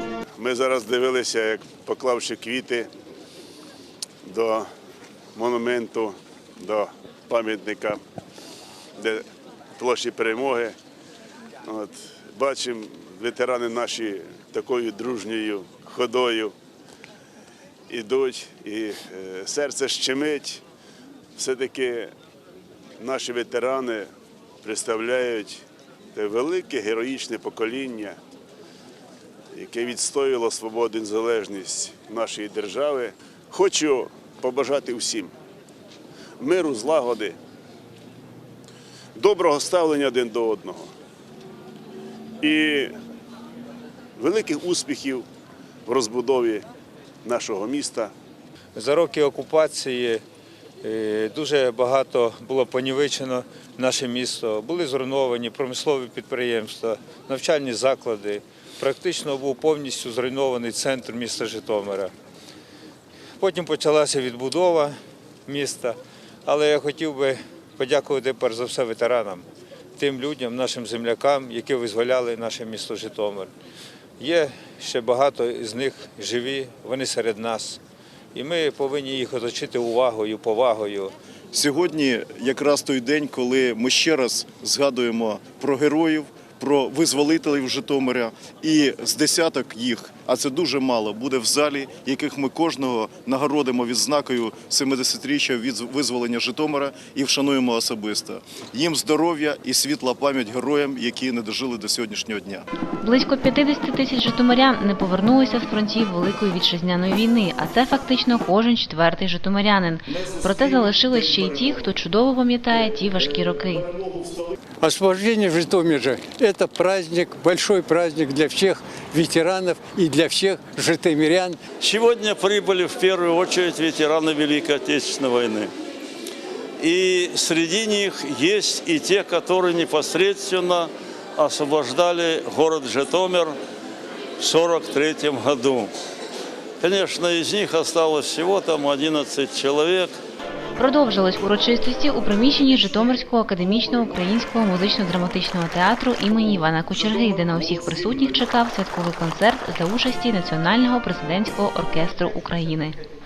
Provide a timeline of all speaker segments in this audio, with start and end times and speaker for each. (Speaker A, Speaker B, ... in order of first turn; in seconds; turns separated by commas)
Speaker A: 0.4-2.9, Speaker A: 4.2-4.7, Speaker A: 5.3-8.0, Speaker A: 9.0-9.2, Speaker A: 9.8-10.8, Speaker A: 11.6-16.5, Speaker A: 17.9-20.6, Speaker A: 21.4-22.1, Speaker A: 23.0-24.1, Speaker A: 24.6-25.6, Speaker A: 26.1-28.2, Speaker A: 29.5-35.3, Speaker A: 36.4-37.4, Speaker A: 39.1-40.9, Speaker A: 42.4-42.9, Speaker A: 44.2-45.2, Speaker A: 45.9-46.6, Speaker A: 47.2-48.1, Speaker B: 48.8-50.2, Speaker B: 50.8-62.1, Speaker B: 63.4-64.9, Speaker B: 65.5-69.4, Speaker B: 70.0-73.5, Speaker B: 74.2-77.8, Speaker B: 78.3-81.1, Speaker C: 81.5-102.7, Speaker D: 103.0-113.9, Speaker C: 114.0-114.4, Speaker E: 114.8-121.6, Speaker F: 121.8-125.7, Speaker F: 126.8-133.5, Speaker F: 134.4-135.9, Speaker F: 136.8-140.1, Speaker D: 140.8-152.9